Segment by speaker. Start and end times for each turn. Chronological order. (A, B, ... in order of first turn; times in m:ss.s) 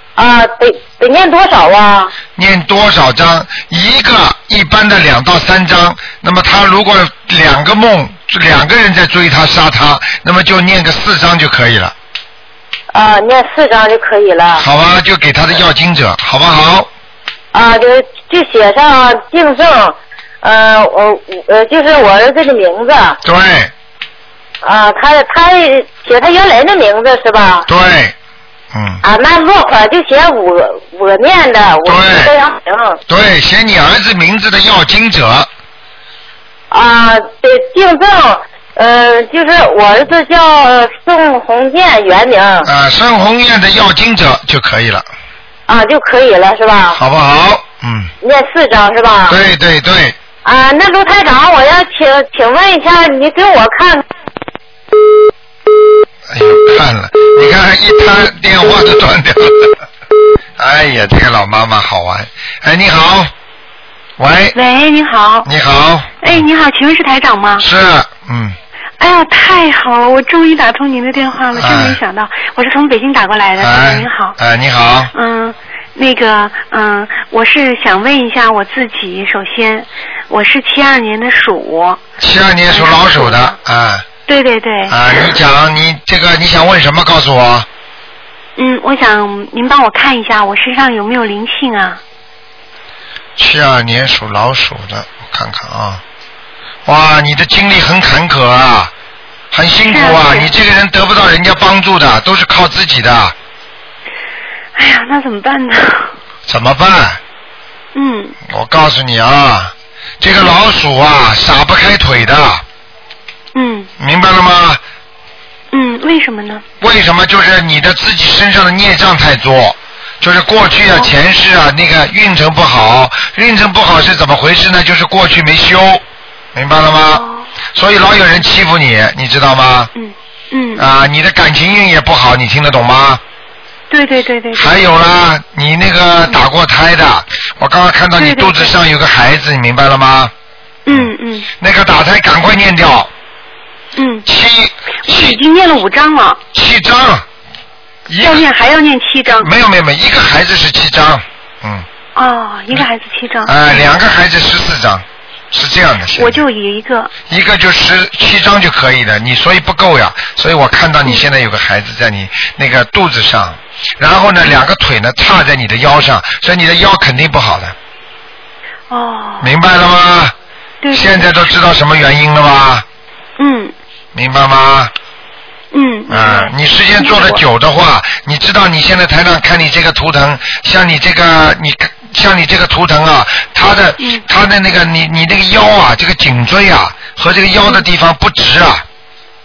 0:00.2-0:02.1 A
0:02.4-0:11.9 B
0:12.9-0:14.6 A
0:14.6-0:16.9 B
0:17.5-0:23.2 A
0:23.2-0:23.7 B
0:24.6-0:27.7 A
0:27.7-0:28.1 B
0:28.7-0:29.0 B
0:29.0-0:33.0 A
0:31.8-0:32.3 B
0:33.1-0:35.5 B
0:36.7-0:42.7 A
0:42.6-0:45.1 B
0:45.7-0:47.0 A
0:46.9-0:48.1 B
0:48.2-0:49.4 A
0:49.3-0:50.2 B
0:50.4-0:54.0 A
0:56.3-0:59.8 B
1:00.6-1:03.3 B
1:04.2-1:04.6 B
1:04.5-1:05.5 C
1:05.4-1:06.4 B
1:06.2-1:07.6 C
1:07.6-1:08.6 B
1:09.0-1:14.4 C
1:11.5-1:12.0 B
1:13.6-1:15.1 B
1:15.1-1:22.0 C
1:22.2-1:24.0 B
1:22.7-1:23.6 C
1:24.3-1:25.3 C
1:24.9-1:27.7 B
1:28.6-1:32.0 C
1:33.4-1:36.0 B
1:36.8-1:38.9 B
1:39.5-1:43.3 B
1:39.8-1:40.5 C
1:44.7-1:46.1 C
1:46.5-1:47.2 B
1:47.9-1:48.4 C
1:48.4-1:52.6 B
1:53.5-1:53.9 C
1:54.0-1:54.8 B
1:55.7-1:56.6 C
1:56.8-2:06.0 B
2:06.5-2:09.9 B
2:07.1-2:07.5 C
2:10.0-2:10.8 C
2:10.8-2:13.2 B
2:13.9-2:14.8 C
2:14.5-2:20.3 B
2:18.2-2:18.8 C
2:20.8-2:21.5 C
2:20.9-2:23.1 B
2:24.0-2:24.3 C
2:24.2-2:25.4 B
2:25.0-2:26.4 C
2:26.5-2:27.2 B
2:28.1-2:28.4 B
2:28.2-2:29.5 C
2:29.4-2:31.8 B
2:32.2-2:33.9 C
2:33.4-2:36.4 B
2:36.1-2:37.1 C
2:37.3-2:47.7 B
2:48.9-2:49.5 C
2:49.4-2:50.3 B
2:50.8-2:51.5 C
2:50.9-2:52.8 B
2:53.4-2:53.7 C
2:54.1-2:54.9 B
2:55.7-2:57.4 C
2:56.1-3:08.8 B